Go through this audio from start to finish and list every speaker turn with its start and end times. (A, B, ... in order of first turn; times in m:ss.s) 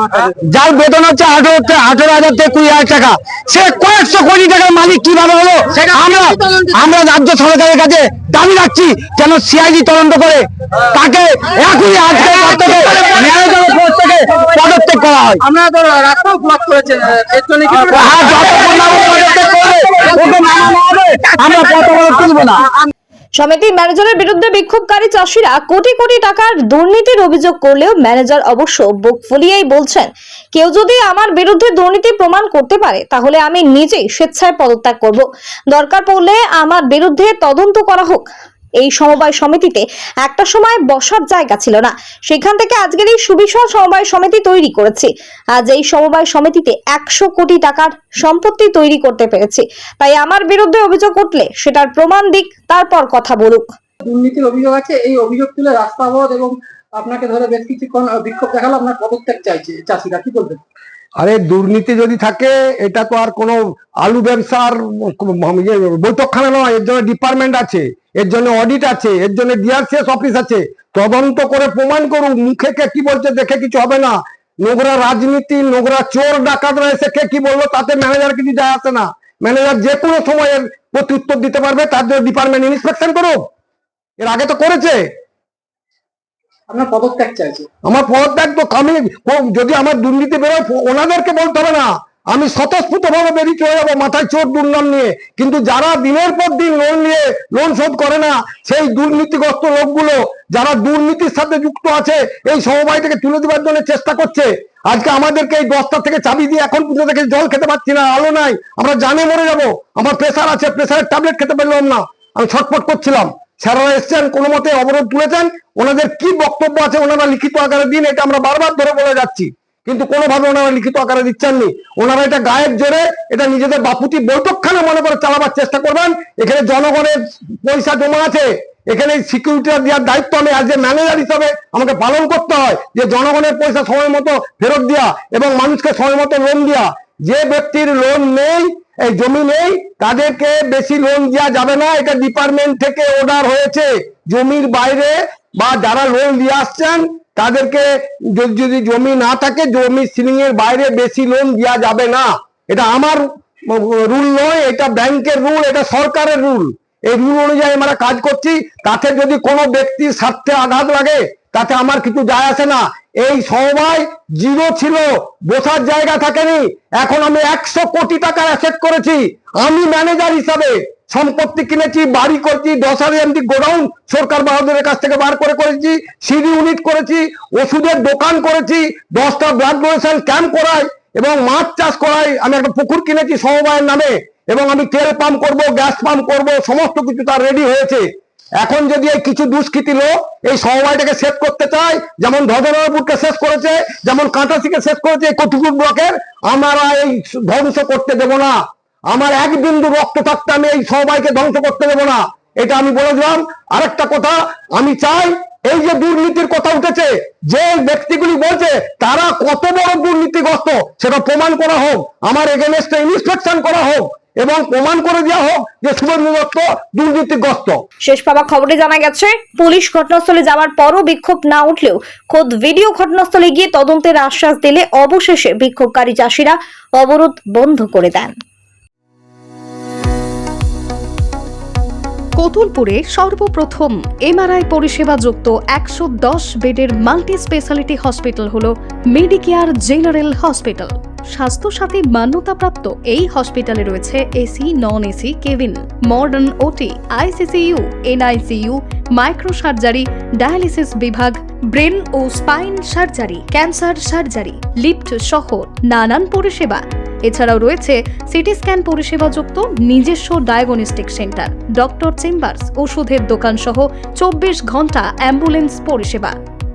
0:00.4-0:15.4 A
0:06.0-0:06.3 B
0:15.4-0:18.4 B
0:17.7-0:22.6 A
0:23.4-0:38.3 C
0:38.8-0:53.6 C
0:54.0-1:00.6 B
1:01.2-1:23.4 D
1:24.2-1:25.0 D
1:26.7-1:27.7 B
1:27.9-3:08.0 D
3:08.6-3:18.6 D
3:19.1-3:37.8 D
3:38.1-3:48.3 C
3:52.4-4:26.4 E